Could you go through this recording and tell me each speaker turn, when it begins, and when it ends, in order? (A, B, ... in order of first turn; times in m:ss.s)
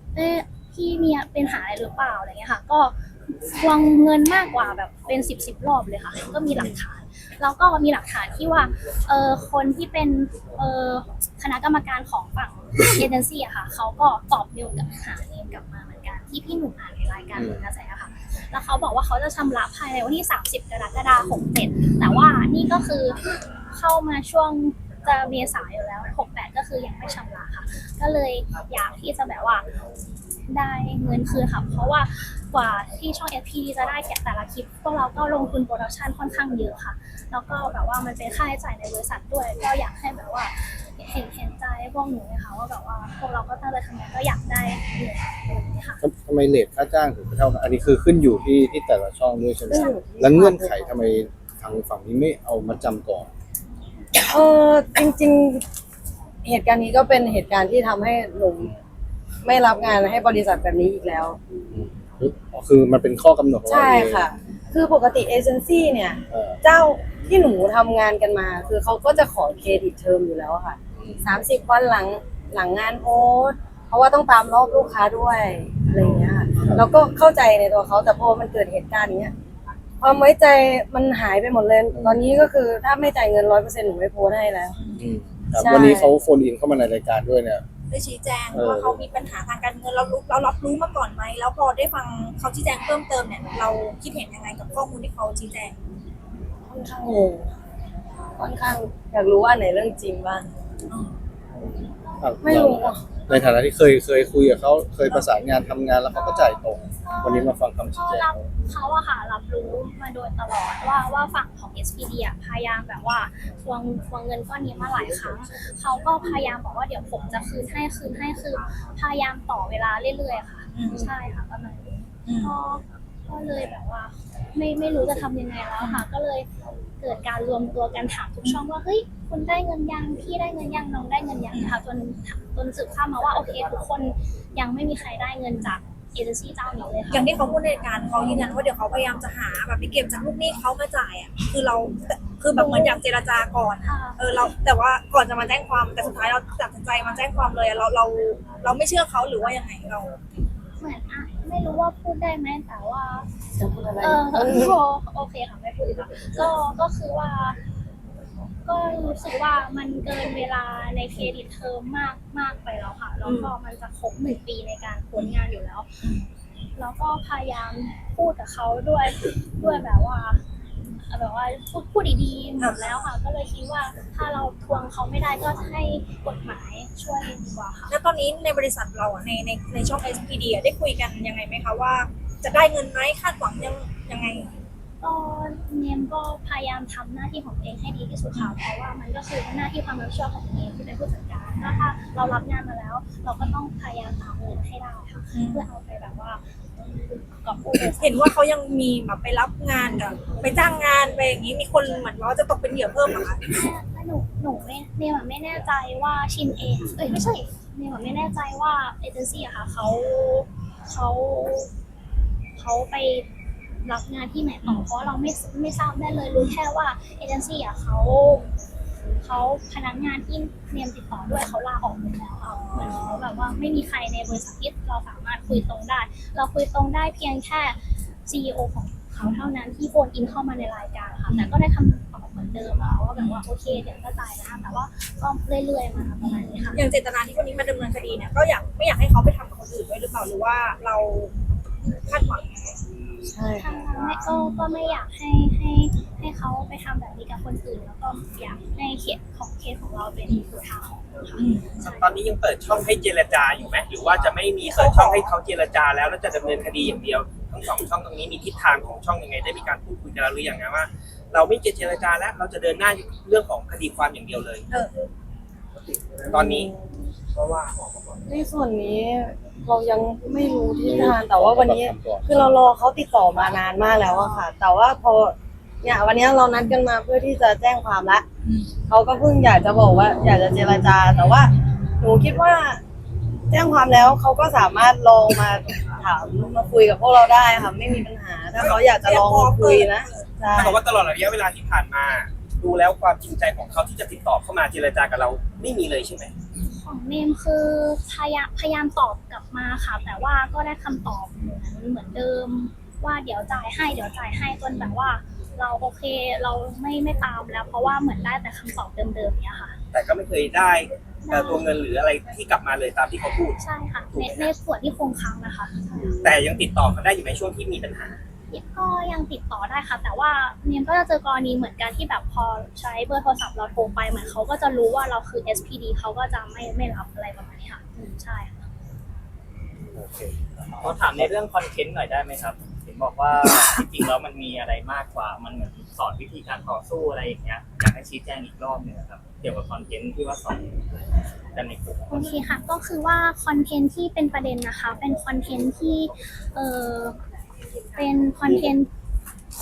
0:00.1-0:29.6 A
0:06.5-0:06.8 B
0:30.5-0:46.0 A
0:46.0-0:53.3 B
0:49.6-0:50.9 C
0:54.2-0:55.6 C
0:56.4-0:58.7 C
0:59.4-1:01.4 C
1:01.7-1:04.3 B
1:03.6-1:19.3 C
1:06.3-1:06.6 B
1:10.9-1:11.3 B
1:20.0-1:24.8 C
1:21.9-1:22.2 B
1:25.0-1:27.6 B
1:25.6-1:26.1 C
1:27.9-1:35.8 D
1:28.5-1:29.0 B
1:36.7-1:37.5 C
1:38.4-1:40.4 C
1:41.6-1:48.4 B
1:42.4-1:43.0 C
1:46.1-2:01.9 A
2:00.7-2:01.0 D
2:02.4-2:06.5 A
2:07.0-2:17.5 A
2:17.1-2:30.1 D
2:18.2-2:18.4 A
2:22.5-2:23.0 A
2:23.8-2:24.2 A
2:30.8-2:33.3 A
2:33.6-2:34.8 C
2:34.0-2:37.6 A
2:38.6-2:45.9 A
2:46.8-2:50.4 A
2:51.1-2:57.9 A
2:57.9-3:04.6 D
3:05.0-3:18.2 A
3:15.3-3:15.6 D
3:18.0-3:23.5 D
3:23.4-3:31.7 A
3:32.6-3:33.3 A
3:33.8-3:38.4 A
3:39.2-3:56.8 A
3:56.8-4:01.3 D
4:02.0-4:02.8 D
4:03.2-4:03.8 C
4:03.6-4:12.1 A
4:11.4-4:11.8 D
4:11.7-4:24.7 E
4:15.0-4:15.3 D
4:26.2-4:26.7 E
4:26.3-4:26.8 C
4:27.4-4:27.8 E
4:28.2-4:38.2 C
4:30.8-4:32.4 B
4:38.9-4:42.8 C
4:43.5-4:50.8 C
4:48.6-4:48.9 E
4:48.9-4:50.2 D
4:50.6-4:56.3 E
4:56.6-5:09.8 A
5:09.9-5:13.6 E
5:11.2-5:11.8 A
5:13.6-5:16.2 A
5:14.1-5:14.5 E
5:16.2-5:18.2 E
5:18.5-5:28.7 A
5:29.9-5:31.3 B
5:30.8-5:40.7 F
5:41.5-5:42.3 F
5:42.1-5:47.2 A
5:48.0-5:48.9 A